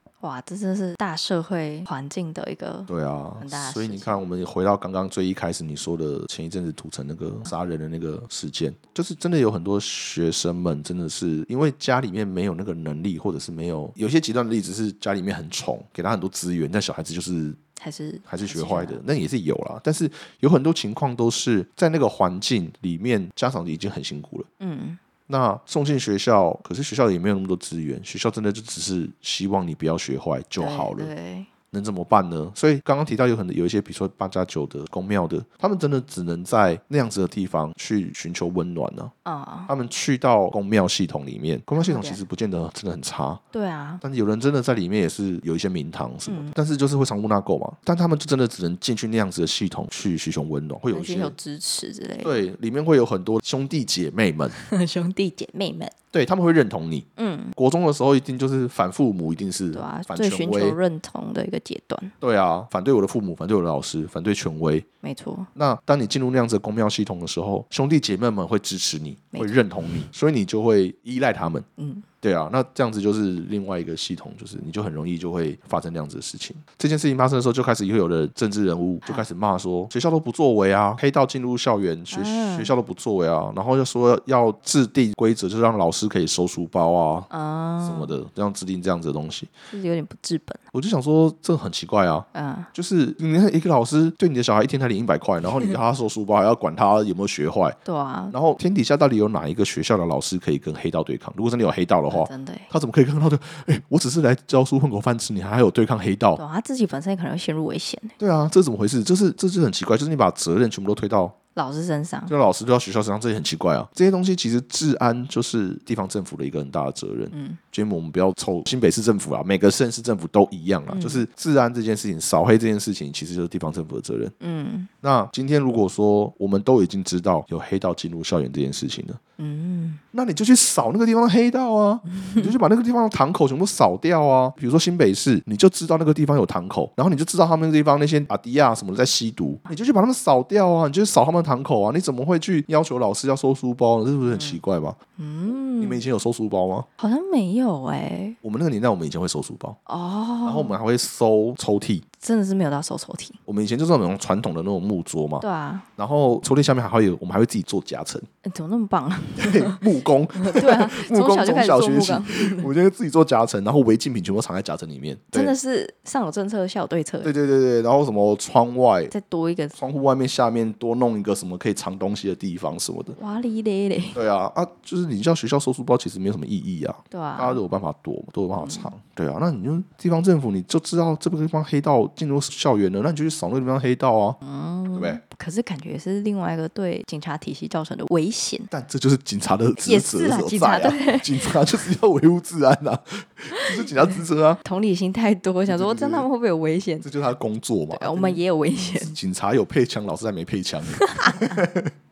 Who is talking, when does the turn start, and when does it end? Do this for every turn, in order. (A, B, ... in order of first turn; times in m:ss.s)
0:00.2-0:04.2 A
0:02.9-0:17.6 B
0:17.8-0:19.0 A
0:18.3-0:24.5 B
0:24.6-0:25.0 A
0:25.3-0:31.1 B
0:30.6-0:31.5 A
0:31.7-0:39.1 B
0:39.2-0:39.7 A
0:39.7-0:43.4 B
0:41.8-0:42.2 A
0:43.5-0:44.0 A
0:44.0-0:51.3 B
0:46.2-0:46.6 A
0:50.9-0:52.4 A
0:52.2-0:54.6 B
0:54.6-0:55.9 A
0:56.1-1:00.8 B
0:57.2-0:57.6 A
0:59.7-1:02.1 A
1:02.2-1:04.9 B
1:05.0-1:05.5 A
1:05.6-1:11.6 B
1:09.3-1:09.6 A
1:11.8-1:12.0 A
1:12.2-1:27.3 B
1:22.1-1:22.7 A
1:27.3-1:28.1 A
1:27.8-1:29.5 B
1:29.7-1:30.6 A
1:30.7-1:37.8 B
1:32.3-1:32.7 A
1:37.8-1:38.3 A
1:38.3-1:46.4 B
1:42.1-1:42.7 A
1:46.4-1:48.1 A
1:48.2-1:51.4 B
1:51.6-1:52.3 A
1:52.3-2:04.3 B
1:57.3-1:57.6 A
2:00.9-2:01.2 A
2:04.4-2:04.9 A
2:05.0-2:09.2 B
2:09.4-2:10.0 A
2:10.1-2:25.0 B
2:12.1-2:12.5 A
2:24.3-2:24.6 A
2:25.2-2:26.0 A
2:25.8-2:26.9 B
2:27.0-2:28.4 A
2:28.4-2:29.8 B
2:29.9-2:30.7 A
2:30.4-2:32.0 B
2:32.2-2:33.4 A
2:33.4-2:35.4 B
2:35.4-2:35.9 A
2:36.0-2:38.3 B
2:38.4-2:39.8 A
2:39.4-2:45.6 B
2:40.4-2:42.7 A
2:45.3-2:47.3 A
2:47.2-2:49.1 B
2:49.1-2:49.8 A
2:49.8-2:53.2 B
2:53.2-2:54.2 A
2:54.1-3:04.4 B
2:57.1-2:57.6 A
2:58.6-2:58.9 A
3:04.4-3:08.7 A
3:04.9-3:05.2 B
3:08.7-3:14.6 B
3:09.8-3:11.9 A
3:13.5-3:17.1 A
3:15.7-3:16.3 B
3:17.0-3:21.9 B
3:17.9-3:19.2 A
3:20.9-3:21.6 A